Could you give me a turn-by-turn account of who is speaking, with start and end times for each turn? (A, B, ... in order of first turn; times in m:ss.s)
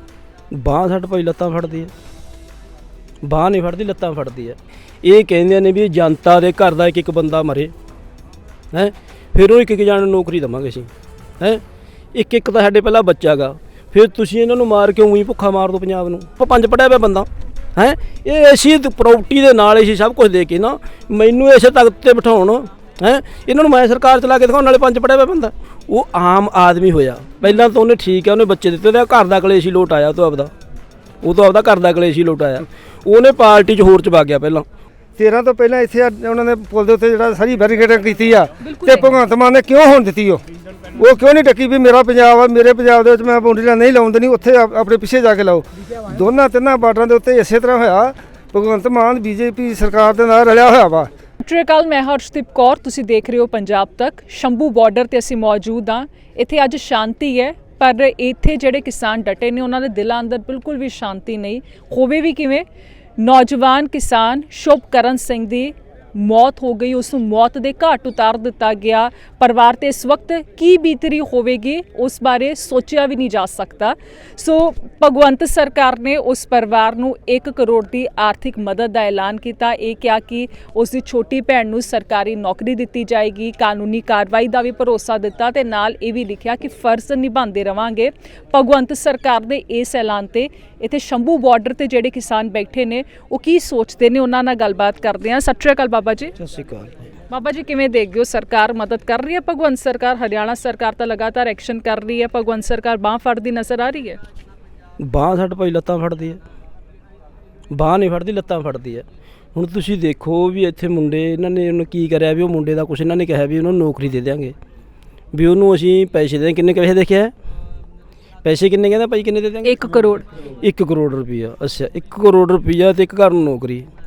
0:00.5-0:01.9 A
0:03.2-0:07.7 A
0:08.7-0:11.6 A
0:12.1-0:30.5 A
0:31.2-0:34.6 A
0:35.2-0:40.4 B
0:38.6-0:39.1 C
0:40.9-0:51.1 B
0:51.4-1:02.6 C
1:03.2-1:36.3 C
1:36.4-1:37.1 A
1:37.3-1:44.2 C
1:45.0-1:46.4 A
1:47.7-1:49.0 A
1:49.5-1:54.5 A
1:55.3-1:57.3 A
1:58.4-1:59.8 A
1:59.6-2:00.2 C
2:00.6-2:03.9 A